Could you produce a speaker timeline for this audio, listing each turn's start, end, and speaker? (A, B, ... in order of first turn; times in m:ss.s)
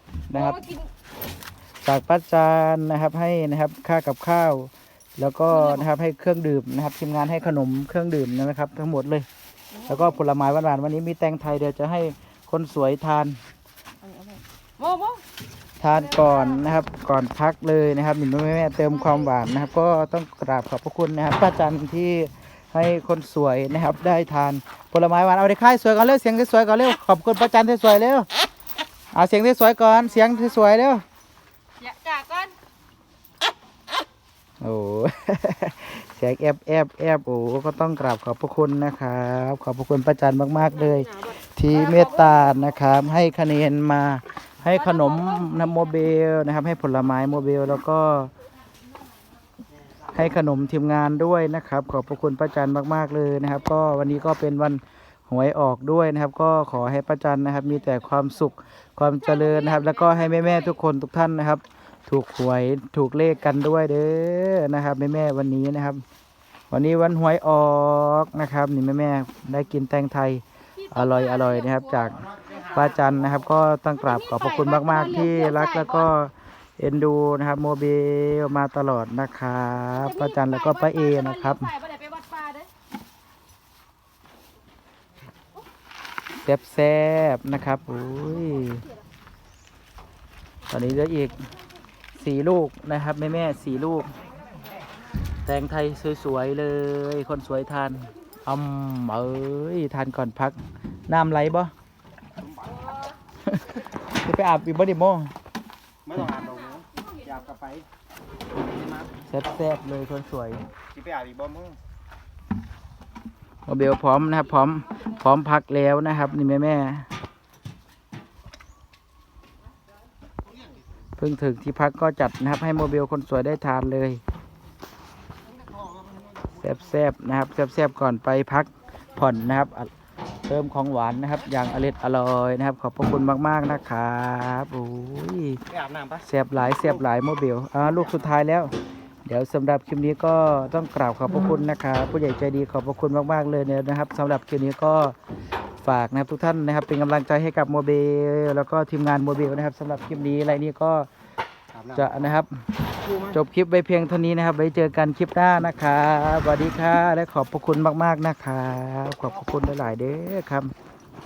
0:00.3-0:00.7 A
0:00.4-0:00.9 B
0:01.8-0:09.3 A
0:09.8-0:10.1 B
0:09.8-0:13.4 A
0:14.0-0:15.2 B
0:15.8-0:28.3 A
0:29.1-0:31.0 A
0:31.8-0:32.5 B
0:34.6-0:48.3 A
0:44.8-0:45.4 B
0:50.1-1:06.0 A
0:59.3-1:00.5 B
1:06.7-1:21.7 A
1:10.8-1:12.1 B
1:14.0-1:16.1 B
1:20.0-1:22.7 B
1:26.3-1:28.9 A
1:30.7-1:31.4 A
1:32.2-1:34.1 A
1:35.4-1:41.7 A
1:43.5-1:45.3 A
1:46.1-1:47.8 C
1:48.7-1:48.9 C
1:49.3-1:50.6 A
1:50.9-1:51.8 C
1:53.6-1:57.1 A
2:01.2-2:04.2 A
2:06.6-2:09.9 A
2:10.4-2:15.6 A
2:16.1-2:18.7 A
2:19.2-2:25.2 A
2:25.8-2:31.1 A
2:31.9-2:40.7 A